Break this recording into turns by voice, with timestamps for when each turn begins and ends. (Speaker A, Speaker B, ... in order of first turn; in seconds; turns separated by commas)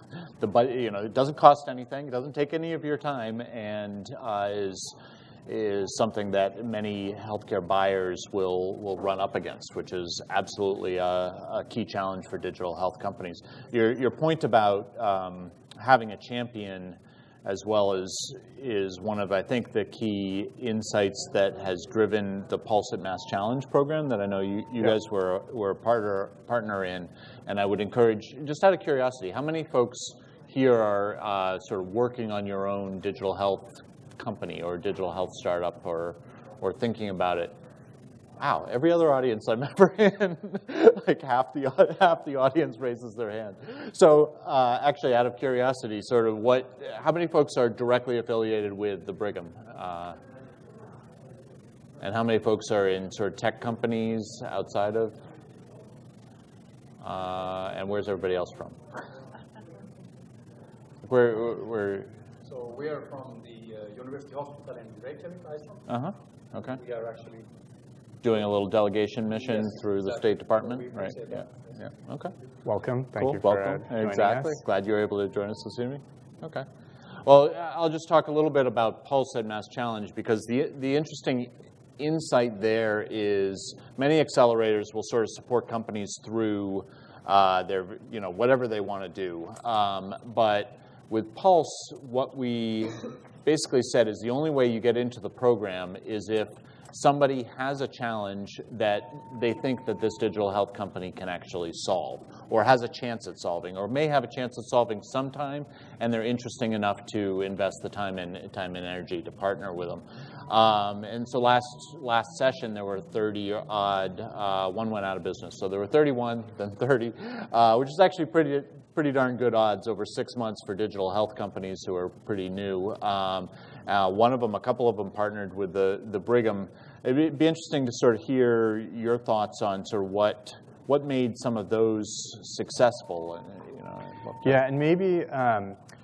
Speaker A: 0.4-37.5, Speaker A: 38.4-50.2, Speaker A: 52.0-55.2, Speaker A: 57.0-58.8, Speaker A: 61.0-62.1, Speaker B: 62.4-65.8, Speaker A: 65.9-66.8, Speaker B: 66.7-67.5, Speaker A: 68.2-72.3, Speaker B: 69.4-71.7, Speaker C: 72.6-74.6, Speaker A: 73.2-76.7, Speaker A: 77.2-134.6, Speaker C: 134.4-135.8